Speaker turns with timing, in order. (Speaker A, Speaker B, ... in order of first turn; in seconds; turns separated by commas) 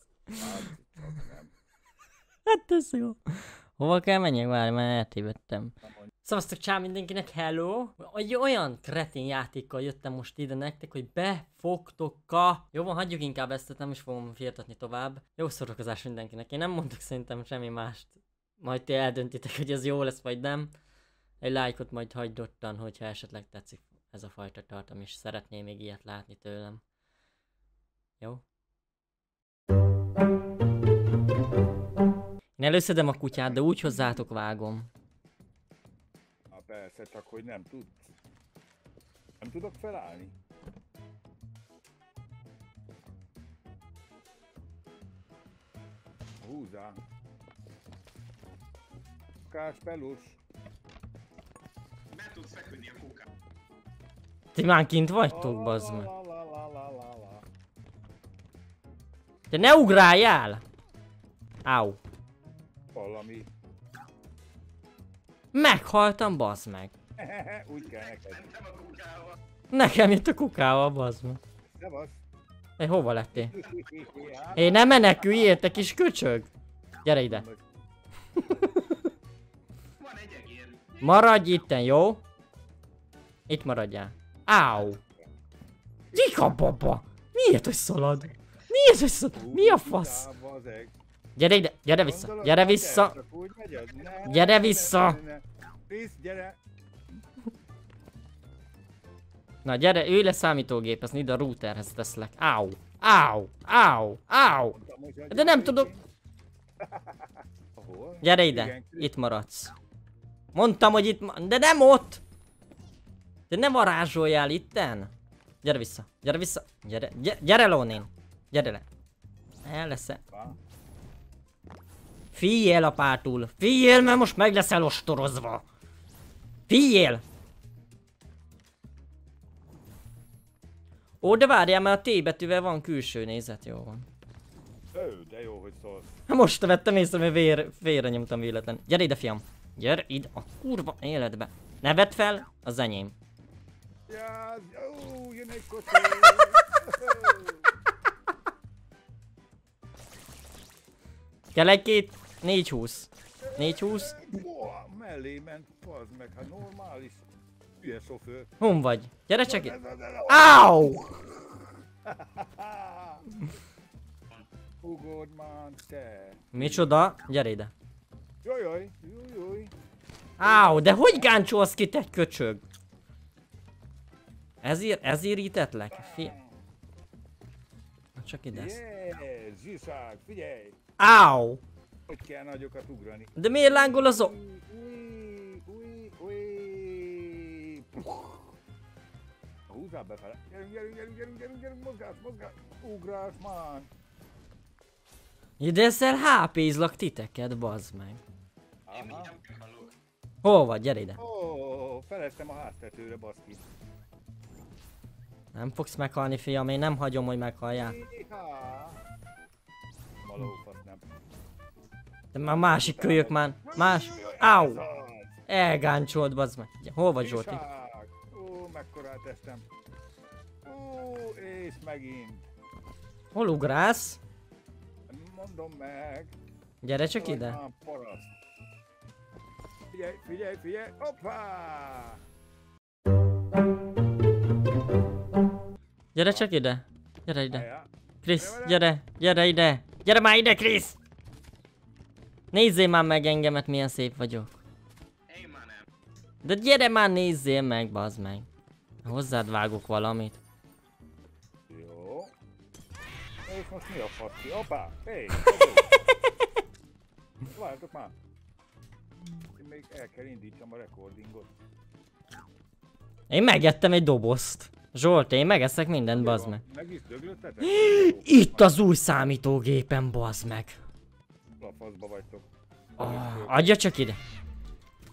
Speaker A: 0.4-1.5, Speaker B: 2.5-20.7, Speaker A: 5.8-6.1, Speaker B: 21.4-26.8, Speaker B: 32.6-34.9, Speaker A: 36.5-38.1, Speaker A: 39.4-40.3, Speaker A: 46.4-47.0, Speaker A: 49.5-50.4, Speaker C: 52.1-53.3, Speaker B: 54.5-56.1, Speaker A: 55.3-57.5, Speaker B: 59.5-60.6, Speaker B: 61.6-62.0, Speaker A: 62.9-63.5, Speaker B: 65.5-66.9, Speaker A: 67.2-68.5, Speaker C: 67.9-69.4, Speaker B: 69.7-71.4, Speaker A: 71.7-72.2, Speaker B: 72.8-73.5, Speaker A: 73.3-75.6, Speaker C: 73.7-74.6, Speaker B: 74.6-76.5, Speaker B: 77.0-77.5, Speaker A: 77.2-77.6, Speaker B: 78.4-78.8, Speaker C: 80.0-81.2, Speaker B: 81.0-82.2, Speaker B: 83.5-85.0, Speaker B: 86.1-90.3, Speaker A: 89.3-90.9, Speaker B: 91.4-93.2, Speaker A: 92.0-96.6, Speaker B: 94.3-95.2, Speaker B: 99.6-104.8, Speaker A: 104.7-106.0, Speaker B: 105.3-105.9, Speaker A: 106.8-109.1, Speaker B: 108.2-109.7, Speaker B: 110.5-112.2, Speaker B: 113.5-115.1, Speaker B: 115.6-118.9, Speaker B: 119.6-120.2, Speaker A: 120.3-120.6, Speaker B: 122.3-125.7, Speaker B: 126.7-127.2, Speaker B: 131.2-134.1, Speaker A: 134.9-136.1, Speaker B: 136.3-143.2, Speaker A: 144.1-147.7, Speaker B: 151.5-154.1, Speaker A: 153.4-157.2, Speaker A: 157.8-158.5, Speaker B: 158.6-159.7, Speaker A: 159.4-163.3, Speaker B: 160.3-161.0, Speaker A: 164.8-167.0, Speaker B: 166.5-167.7, Speaker A: 168.4-169.7, Speaker B: 170.4-172.6, Speaker A: 170.4-171.4, Speaker B: 174.6-176.3, Speaker A: 175.9-176.6, Speaker B: 178.2-178.8, Speaker A: 178.5-180.8, Speaker B: 181.0-181.6, Speaker A: 182.1-188.5, Speaker B: 183.4-184.3, Speaker A: 189.7-193.9, Speaker B: 195.6-198.2, Speaker A: 198.9-199.3, Speaker C: 198.9-199.9, Speaker B: 200.4-201.2, Speaker A: 201.2-203.6, Speaker B: 205.5-208.0, Speaker A: 207.7-209.0, Speaker A: 210.2-211.1, Speaker B: 212.3-214.8, Speaker A: 212.4-215.4, Speaker B: 215.5-217.6, Speaker A: 217.2-219.7, Speaker A: 220.7-222.4, Speaker B: 223.3-224.2, Speaker A: 225.1-226.3, Speaker B: 226.8-227.6, Speaker A: 227.2-228.3, Speaker A: 229.9-232.2, Speaker B: 236.1-237.7, Speaker A: 237.5-238.8, Speaker B: 238.2-241.0, Speaker B: 242.5-244.6, Speaker C: 245.3-245.9, Speaker B: 246.4-248.5, Speaker B: 249.0-250.4, Speaker A: 251.7-252.3, Speaker A: 253.5-255.9, Speaker A: 257.5-258.1, Speaker A: 259.6-261.5, Speaker B: 263.3-266.6, Speaker A: 266.1-268.8, Speaker B: 267.6-270.8, Speaker A: 271.6-272.5, Speaker A: 273.0-273.8, Speaker B: 273.0-274.2